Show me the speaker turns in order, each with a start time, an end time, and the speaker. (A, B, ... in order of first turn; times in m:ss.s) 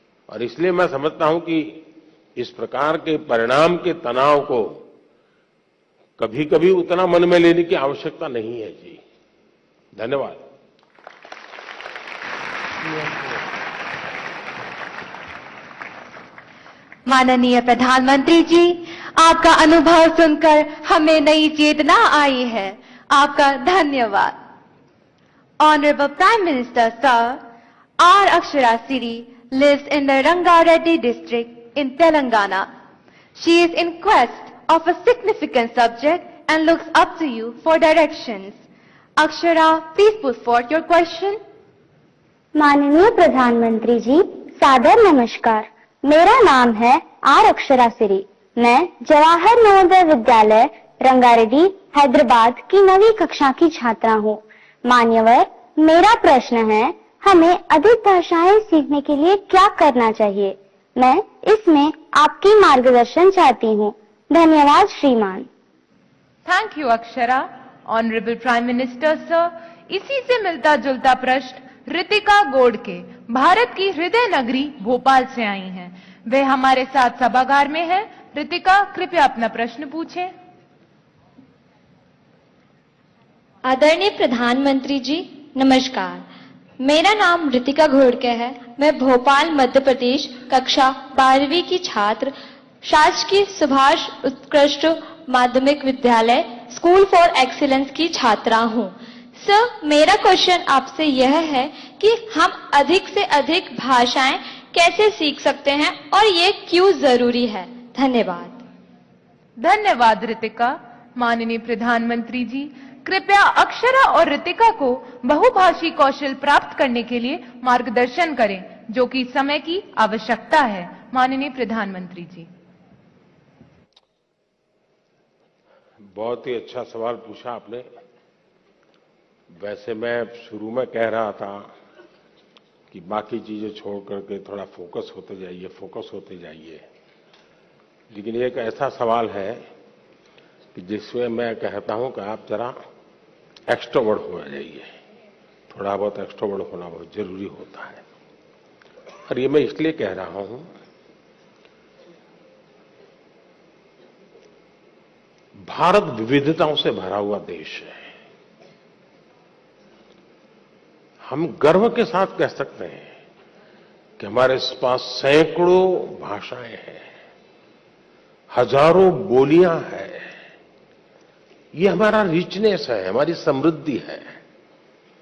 0:00.3-0:04.8 A
0:06.2-0:09.0 A
0:10.0-0:10.5 A
0:17.1-0:24.4 B
0:25.6-0:27.4 B
0:28.0-0:32.7 B
0:33.4-0:38.6 B
0:39.2-0:41.4 B
0:42.6-1:05.5 C
1:06.5-1:20.3 D
1:23.6-1:26.3 E
1:26.8-1:48.6 E
1:49.6-2:02.5 D
2:06.1-2:07.9 A
2:09.5-2:11.7 A
2:12.9-2:16.8 A
2:18.1-2:19.6 A
2:20.8-2:22.8 A
2:23.7-2:24.9 A
2:25.7-2:28.0 A
2:29.3-2:30.7 A
2:35.6-2:38.1 A
2:41.2-2:43.2 A
2:44.2-2:47.1 A
2:48.5-2:50.3 A
2:51.8-2:54.4 A